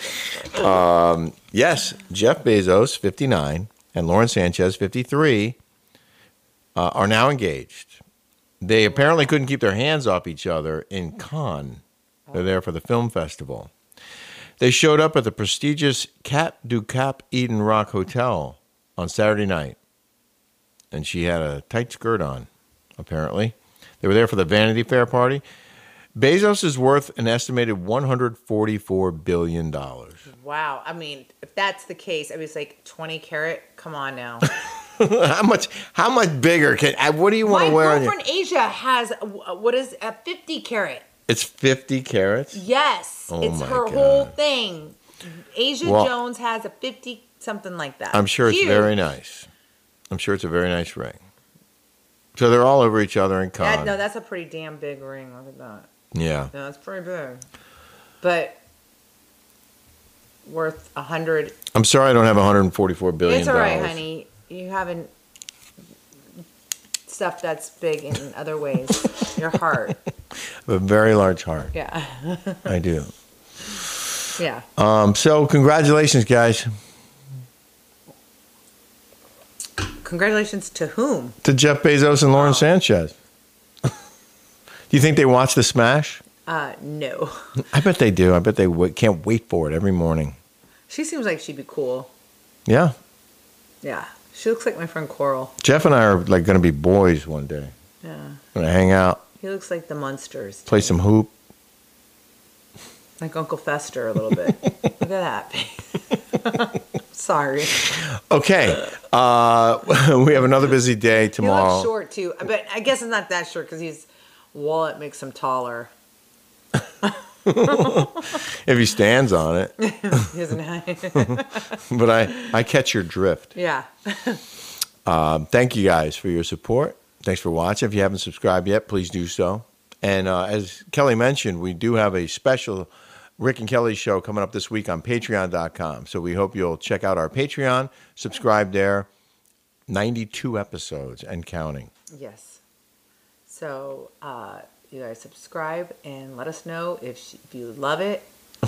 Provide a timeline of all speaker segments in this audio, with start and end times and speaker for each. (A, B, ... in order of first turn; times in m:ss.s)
0:00.5-0:05.6 A
0:06.8-0:08.0 A
0:08.6-0:11.8 A
0:12.3-0:13.7 A
0:14.6-0:19.8 A
0:20.9-0:22.5 A
0:23.0-0:25.4 A
0:26.2-0:30.2 A
0:30.3-0:34.4 B
0:35.0-0:38.1 A
0:37.4-0:41.0 B
0:41.3-0:42.6 A
0:42.5-0:49.0 B
0:43.3-0:44.3 A
0:45.8-0:46.1 A
0:48.1-0:49.5 A
0:50.1-0:51.2 A
0:52.4-0:54.0 A
0:53.6-0:55.9 B
0:56.1-0:56.5 A
0:56.5-0:57.4 B
0:58.2-0:58.6 B
1:00.4-1:01.6 B
1:01.7-1:04.0 A
1:03.2-1:05.1 B
1:07.1-1:10.0 B
1:10.6-1:11.7 A
1:11.7-1:12.7 B
1:12.7-1:13.1 A
1:14.4-1:14.6 B
1:14.8-1:16.7 A
1:20.0-1:21.4 B
1:21.4-1:23.1 A
1:22.3-1:22.6 B
1:24.9-1:26.2 A
1:26.5-1:27.4 B
1:27.6-1:30.4 A
1:30.9-1:32.1 B
1:32.7-1:33.0 A
1:33.8-1:35.5 B
1:35.6-1:37.7 A
1:38.0-1:38.4 B
1:38.5-1:39.2 A
1:39.4-1:41.0 B
1:40.7-1:41.3 A
1:43.2-1:47.9 B
1:47.9-1:51.9 A
1:51.4-1:55.9 B
1:57.5-2:00.2 A
1:59.8-2:01.6 B
2:01.3-2:03.5 A
2:03.6-2:04.4 B
2:05.1-2:19.1 A
2:19.9-2:21.9 A
2:22.1-2:22.6 B
2:23.5-2:28.3 B